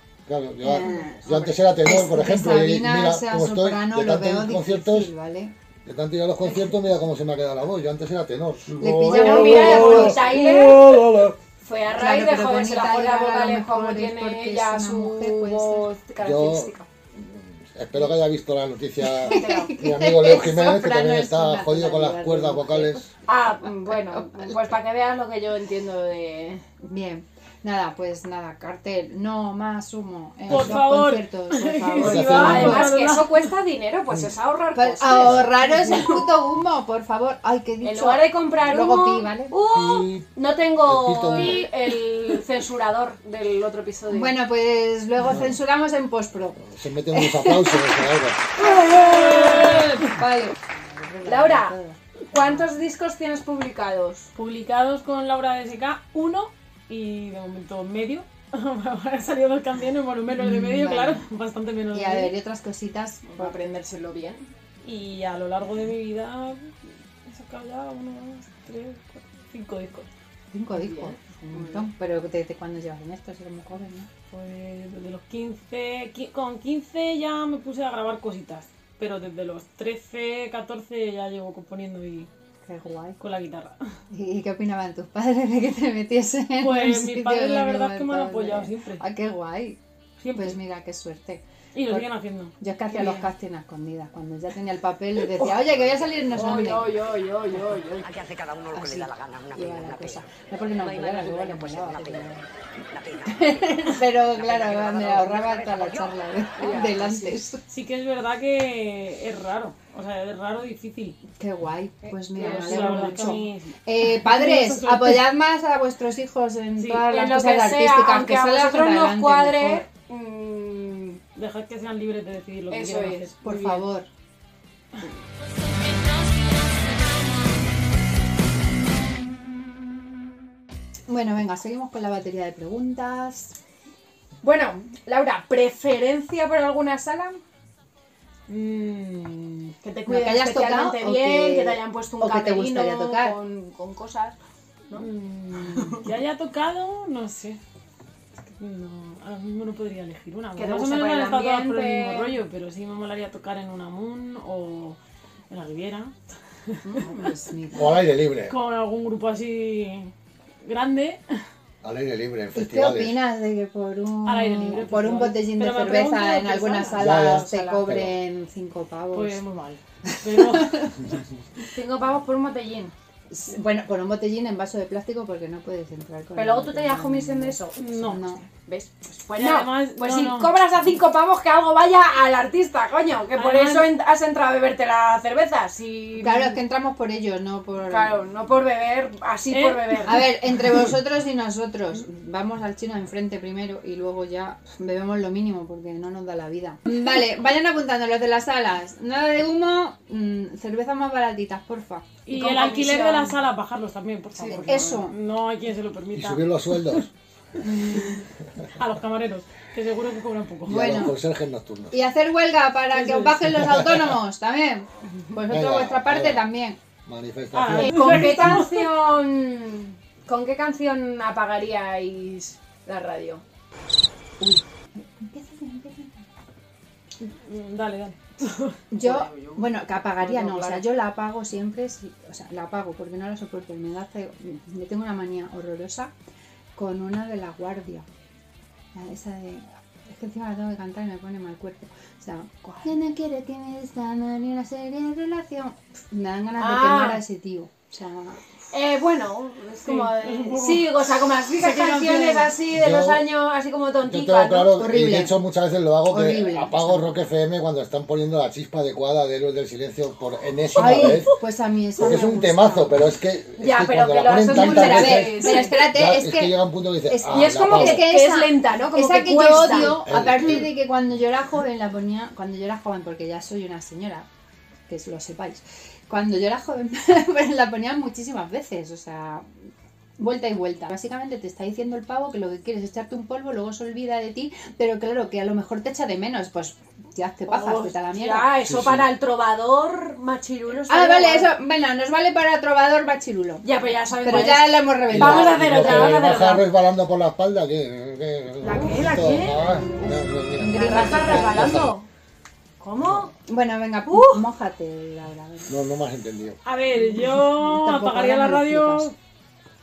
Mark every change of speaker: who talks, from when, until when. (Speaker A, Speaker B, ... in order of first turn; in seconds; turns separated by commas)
Speaker A: 0.3-5.1, Speaker B: 0.6-5.5, Speaker A: 5.8-11.4, Speaker B: 8.8-10.3, Speaker C: 9.1-11.0, Speaker C: 11.6-16.9, Speaker B: 11.9-15.9, Speaker A: 16.2-23.1, Speaker B: 19.1-23.0, Speaker C: 19.2-19.7, Speaker C: 23.3-26.6, Speaker B: 26.8-32.9, Speaker D: 30.5-33.5, Speaker A: 30.5-30.8, Speaker A: 32.0-32.9, Speaker C: 32.1-36.2, Speaker B: 34.8-39.5, Speaker C: 37.8-44.4, Speaker A: 39.7-40.3, Speaker A: 40.8-41.6, Speaker B: 44.1-48.0, Speaker A: 45.2-45.6, Speaker A: 46.6-48.4, Speaker C: 48.6-50.0, Speaker B: 48.6-52.7, Speaker D: 48.9-50.1, Speaker C: 51.2-51.8, Speaker C: 52.3-54.3, Speaker D: 54.4-62.4, Speaker B: 60.4-61.2, Speaker B: 61.9-63.6, Speaker C: 63.2-64.5, Speaker D: 64.8-66.8, Speaker D: 67.3-70.1, Speaker B: 70.5-74.1, Speaker C: 70.8-71.9, Speaker D: 74.3-82.3, Speaker B: 82.7-83.2, Speaker D: 83.2-83.8, Speaker B: 84.1-89.8, Speaker D: 86.6-89.0, Speaker D: 90.2-90.6, Speaker B: 90.3-92.1, Speaker D: 91.7-93.2, Speaker B: 92.6-97.0, Speaker C: 96.3-98.2, Speaker E: 98.3-98.7, Speaker B: 98.7-102.5, Speaker B: 103.1-107.6, Speaker C: 106.6-107.4, Speaker D: 107.7-111.2, Speaker B: 111.4-119.8, Speaker C: 112.0-113.4, Speaker D: 112.4-115.3, Speaker D: 116.8-117.0, Speaker C: 117.1-121.2, Speaker D: 121.4-123.8, Speaker C: 122.7-123.3, Speaker B: 123.4-124.1, Speaker E: 125.7-127.3, Speaker B: 131.1-133.5, Speaker C: 134.4-137.4, Speaker D: 138.5-139.7, Speaker C: 139.8-144.4, Speaker B: 140.1-143.4, Speaker D: 144.9-147.6, Speaker C: 145.7-146.1, Speaker D: 148.4-155.0, Speaker C: 150.6-152.4, Speaker D: 155.5-156.1, Speaker C: 156.9-157.3, Speaker B: 156.9-158.0, Speaker A: 157.7-158.6, Speaker D: 158.5-160.1, Speaker D: 160.6-161.2, Speaker A: 161.8-163.2, Speaker B: 162.6-169.4, Speaker D: 164.2-167.2, Speaker A: 166.9-168.1, Speaker C: 167.2-167.9, Speaker D: 169.1-170.8, Speaker B: 170.1-171.1, Speaker C: 171.7-172.9, Speaker B: 173.3-178.5, Speaker C: 176.3-177.8, Speaker D: 177.8-178.2, Speaker C: 178.6-186.6, Speaker D: 179.4-180.5, Speaker D: 183.3-183.9, Speaker B: 186.2-188.2, Speaker C: 187.9-190.3, Speaker D: 189.5-190.2, Speaker B: 190.1-202.1, Speaker D: 202.3-207.0, Speaker C: 202.3-203.4, Speaker C: 204.4-205.0, Speaker B: 204.5-205.2, Speaker A: 206.1-207.1, Speaker B: 207.6-208.2, Speaker D: 208.8-211.1, Speaker B: 210.7-211.2, Speaker A: 210.7-212.0, Speaker B: 211.9-216.8, Speaker D: 212.9-213.4, Speaker A: 213.5-214.1, Speaker A: 215.5-216.5, Speaker A: 217.1-218.5, Speaker D: 217.5-218.9, Speaker C: 217.8-223.4, Speaker B: 218.1-218.6, Speaker B: 224.4-226.2, Speaker D: 227.2-228.8, Speaker B: 228.9-236.1, Speaker C: 229.0-230.8, Speaker B: 236.8-238.1, Speaker B: 238.9-248.4, Speaker C: 242.6-242.9, Speaker C: 246.6-247.2, Speaker C: 248.7-254.7, Speaker D: 249.8-250.9, Speaker D: 251.6-252.5, Speaker A: 252.7-253.2, Speaker A: 254.0-261.3, Speaker B: 254.7-255.3, Speaker B: 256.1-257.1, Speaker B: 260.8-262.9, Speaker A: 262.0-268.1, Speaker C: 263.6-265.8, Speaker B: 264.5-266.6, Speaker B: 267.1-274.3, Speaker C: 267.3-270.0, Speaker A: 269.9-270.7, Speaker B: 274.9-279.5, Speaker B: 280.2-288.5, Speaker C: 287.5-291.5, Speaker A: 288.6-289.1, Speaker B: 290.9-293.7, Speaker C: 293.6-296.7, Speaker B: 294.2-296.4, Speaker A: 295.1-301.9, Speaker C: 298.6-302.1, Speaker B: 300.6-301.8, Speaker C: 302.8-303.3, Speaker A: 303.0-303.3, Speaker B: 303.5-305.8, Speaker C: 304.1-304.5, Speaker A: 305.7-306.6, Speaker D: 306.6-309.2, Speaker B: 306.9-309.1